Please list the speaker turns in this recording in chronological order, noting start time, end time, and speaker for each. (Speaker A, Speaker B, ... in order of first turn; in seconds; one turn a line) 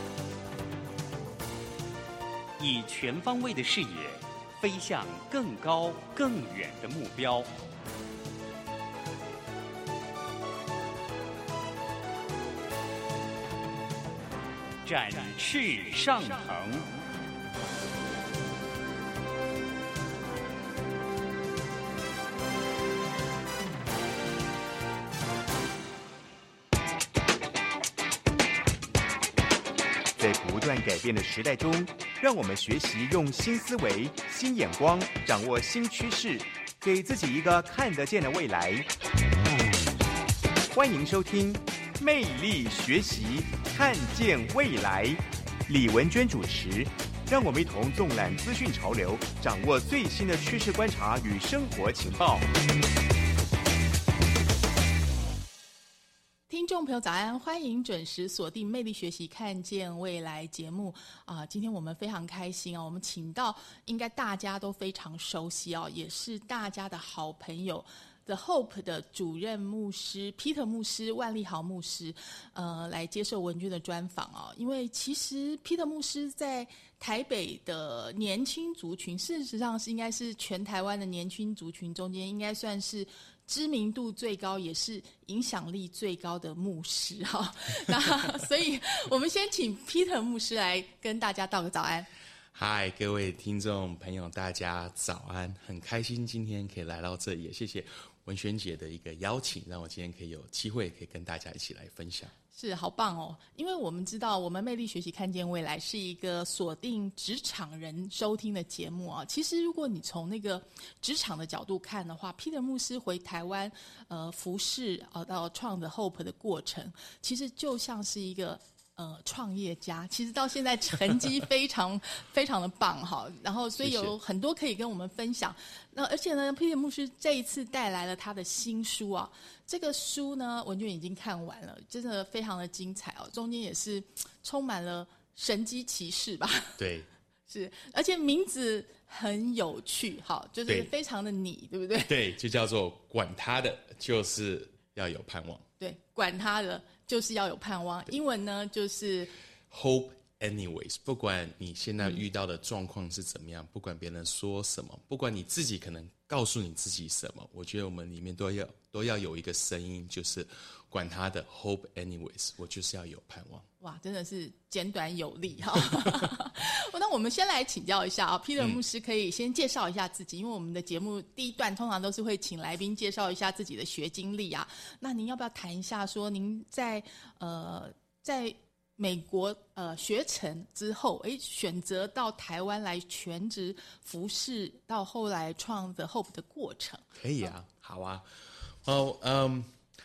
Speaker A: 2.6-7.5
Speaker A: 14.8-16.9
Speaker B: 30.2-38.9
Speaker B: 40.7-52.5
Speaker C: 56.5-92.1
Speaker D: 92.5-102.3
Speaker C: 102.5-136.8
Speaker D: 123.8-124.1
Speaker D: 136.8-137.1
Speaker C: 137.5-142.2
Speaker D: 142.1-145.6
Speaker C: 145.8-149.3
Speaker D: 149.7-163.7
Speaker C: 163.8-187.5
Speaker D: 187.1-189.8